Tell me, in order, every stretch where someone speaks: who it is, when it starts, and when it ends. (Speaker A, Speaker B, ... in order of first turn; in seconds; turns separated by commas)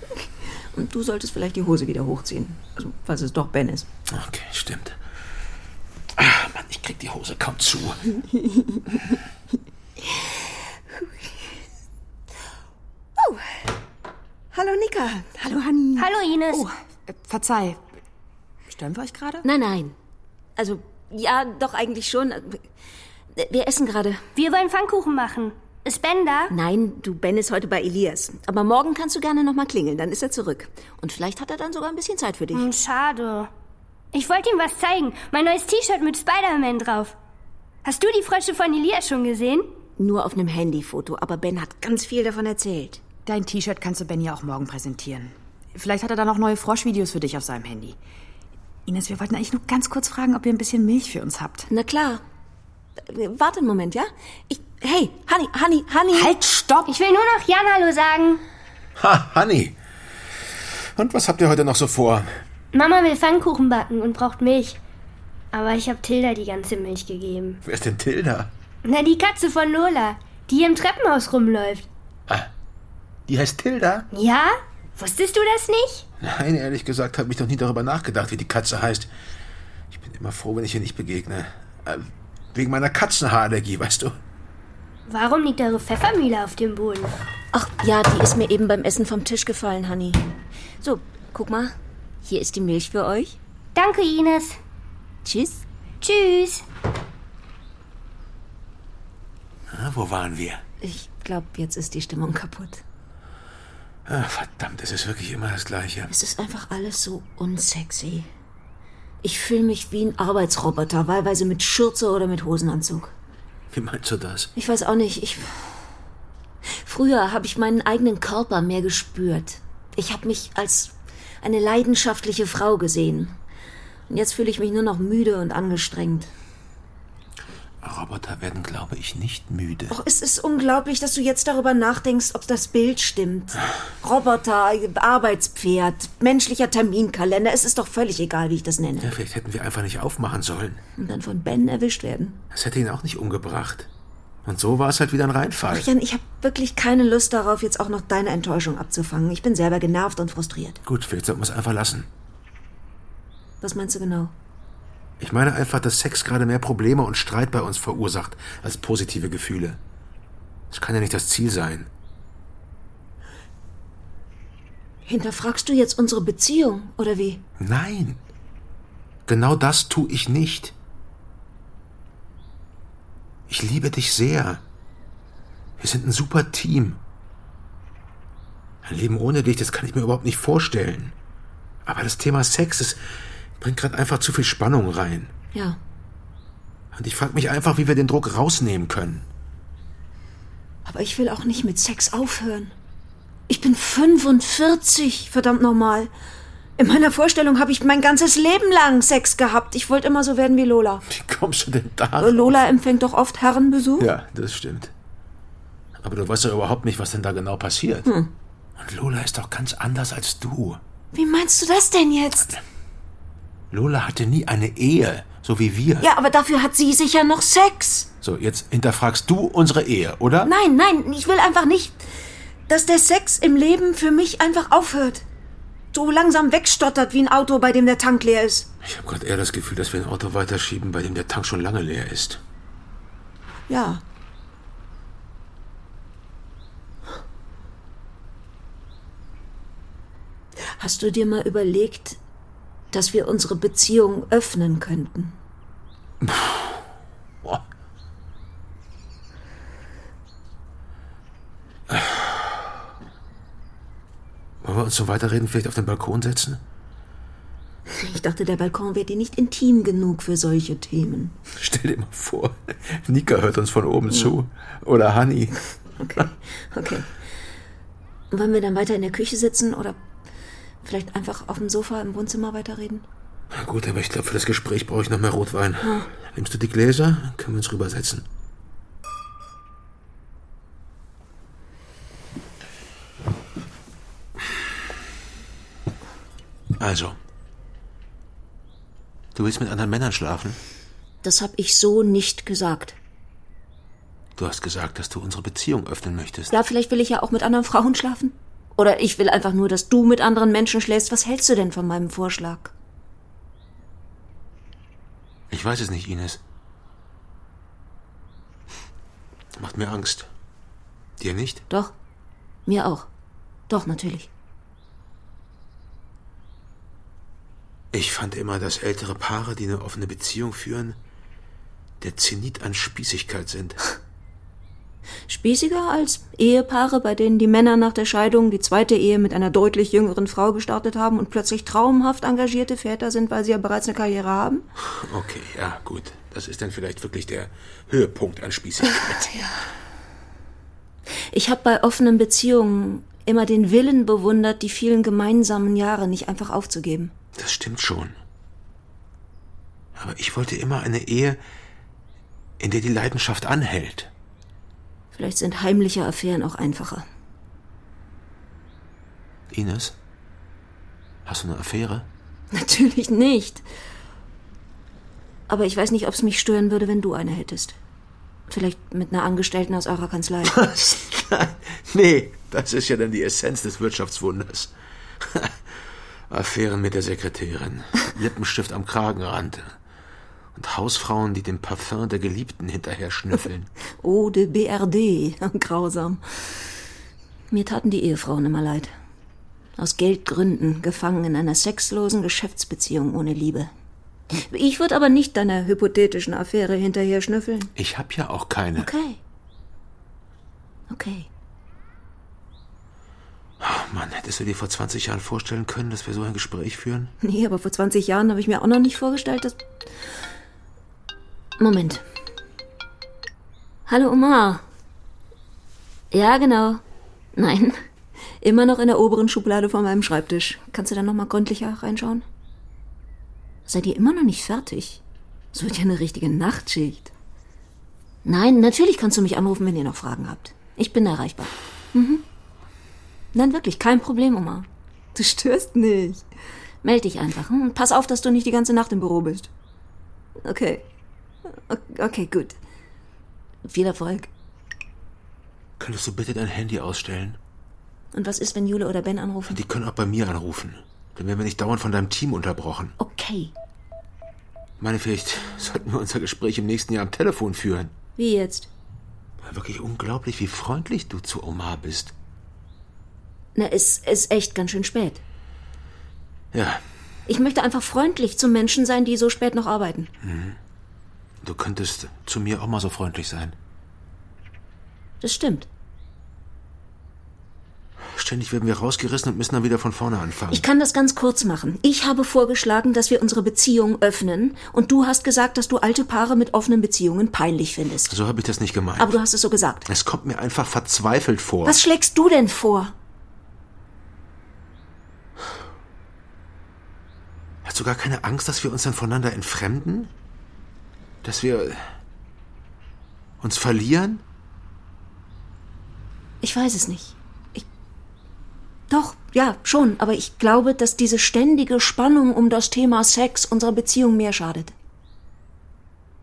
Speaker A: 0.7-3.9, Speaker B: 4.1-5.0, Speaker B: 6.2-8.1, Speaker A: 8.5-8.8, Speaker A: 13.2-13.5, Speaker A: 14.5-16.7, Speaker C: 16.0-16.6, Speaker D: 17.1-17.8, Speaker D: 18.7-19.5, Speaker A: 19.4-19.9, Speaker A: 20.6-22.6, Speaker A: 23.4-24.2, Speaker C: 24.4-26.5, Speaker A: 26.5-32.7, Speaker C: 32.5-33.5, Speaker C: 34.1-37.1, Speaker C: 37.8-39.7, Speaker A: 40.0-43.0, Speaker D: 43.3-48.0, Speaker D: 48.9-51.7, Speaker A: 51.7-52.2, Speaker A: 53.0-56.3, Speaker D: 56.1-56.9, Speaker C: 56.9-58.4, Speaker B: 59.0-59.8, Speaker B: 61.0-62.3, Speaker C: 62.7-64.8, Speaker C: 65.5-67.6, Speaker B: 67.6-68.5, Speaker C: 68.8-71.9, Speaker B: 73.3-74.1, Speaker C: 74.1-76.1, Speaker B: 76.2-79.1, Speaker B: 79.9-84.2, Speaker C: 85.1-87.2, Speaker A: 87.5-90.2, Speaker A: 90.8-93.4, Speaker C: 93.8-94.6, Speaker A: 95.2-95.6, Speaker C: 96.0-96.6, Speaker B: 99.7-100.6, Speaker A: 100.8-102.8, Speaker B: 104.1-106.1, Speaker A: 106.1-108.3, Speaker A: 109.2-113.1, Speaker B: 113.7-114.5, Speaker A: 114.5-115.8, Speaker A: 116.7-123.4, Speaker A: 124.1-126.3, Speaker B: 127.8-130.0, Speaker A: 129.9-139.1, Speaker B: 139.0-140.8, Speaker A: 141.0-142.4, Speaker B: 142.5-143.9, Speaker B: 144.4-145.9, Speaker A: 145.7-150.8, Speaker B: 150.8-152.1, Speaker A: 153.6-154.3, Speaker B: 155.2-159.8, Speaker B: 160.7-161.9, Speaker A: 165.1-167.4, Speaker B: 167.6-168.2, Speaker B: 169.3-170.7, Speaker B: 173.5-174.6, Speaker B: 175.8-177.0, Speaker B: 178.8-181.2, Speaker B: 181.8-183.0, Speaker B: 183.6-185.3, Speaker A: 185.5-185.8, Speaker B: 186.9-189.3, Speaker A: 190.8-192.7, Speaker A: 193.5-196.1, Speaker A: 196.8-201.1, Speaker B: 201.1-202.6, Speaker A: 202.2-204.1, Speaker B: 204.0-204.9, Speaker B: 206.0-208.1, Speaker A: 208.1-208.3, Speaker B: 208.8-210.8, Speaker A: 211.1-212.6, Speaker B: 213.7-216.1, Speaker A: 216.0-218.1, Speaker B: 218.2-220.5, Speaker A: 220.4-222.0, Speaker A: 222.7-225.2, Speaker A: 225.9-228.7, Speaker B: 228.8-232.4, Speaker A: 233.7-234.0, Speaker A: 240.8-242.2, Speaker A: 242.9-245.4, Speaker B: 246.2-246.8, Speaker B: 251.9-252.7, Speaker B: 254.6-256.6, Speaker A: 257.9-261.4, Speaker B: 261.6-265.6, Speaker A: 266.0-267.1, Speaker A: 268.3-270.0, Speaker A: 270.8-273.1, Speaker B: 273.5-278.2, Speaker A: 275.8-276.1, Speaker B: 286.8-287.2, Speaker B: 289.4-290.6, Speaker A: 291.2-293.0, Speaker B: 294.4-296.6, Speaker A: 296.5-302.7, Speaker B: 305.5-306.4, Speaker B: 309.6-310.3, Speaker B: 311.2-311.6, Speaker A: 311.7-311.9, Speaker A: 312.7-313.1, Speaker A: 313.7-314.3, Speaker B: 317.9-321.0, Speaker B: 322.0-323.8, Speaker A: 325.3-334.6, Speaker B: 334.9-339.4, Speaker A: 341.3-347.1, Speaker B: 347.4-348.2, Speaker B: 350.0-351.4, Speaker B: 352.6-354.1, Speaker A: 355.1-357.1, Speaker B: 359.5-360.0, Speaker B: 361.3-362.1, Speaker A: 362.5-363.6, Speaker A: 365.5-367.8, Speaker A: 368.5-370.6, Speaker B: 370.5-375.6, Speaker B: 376.3-379.8, Speaker B: 380.6-383.7, Speaker A: 384.0-386.5, Speaker A: 387.5-388.9, Speaker A: 389.8-393.7, Speaker A: 394.3-397.7, Speaker B: 397.8-398.9, Speaker A: 398.8-399.2, Speaker A: 400.9-401.3, Speaker B: 403.6-407.1, Speaker A: 407.2-409.6, Speaker A: 411.6-412.0, Speaker A: 413.9-414.6, Speaker A: 416.1-416.8, Speaker A: 417.4-417.8, Speaker A: 418.4-422.2, Speaker A: 423.7-425.0, Speaker A: 425.5-427.1, Speaker A: 428.2-432.2, Speaker A: 433.3-436.3, Speaker A: 436.8-439.5, Speaker A: 440.4-440.8, Speaker A: 441.5-442.6, Speaker A: 443.7-444.3, Speaker B: 445.8-447.4, Speaker A: 448.1-449.6, Speaker B: 449.5-452.9, Speaker A: 453.0-453.5, Speaker B: 454.8-457.9, Speaker A: 458.2-458.7, Speaker B: 459.4-462.1, Speaker A: 463.6-465.2, Speaker B: 466.5-466.8, Speaker A: 467.3-470.1, Speaker B: 470.2-470.6, Speaker B: 471.4-473.6, Speaker A: 475.2-475.7, Speaker B: 478.0-480.7, Speaker A: 480.5-488.1, Speaker B: 488.1-489.2, Speaker A: 489.0-489.9, Speaker B: 489.9-491.8, Speaker A: 491.6-492.9, Speaker B: 497.6-500.1, Speaker B: 501.2-501.9, Speaker B: 503.4-504.2, Speaker A: 506.4-507.7, Speaker A: 508.9-514.7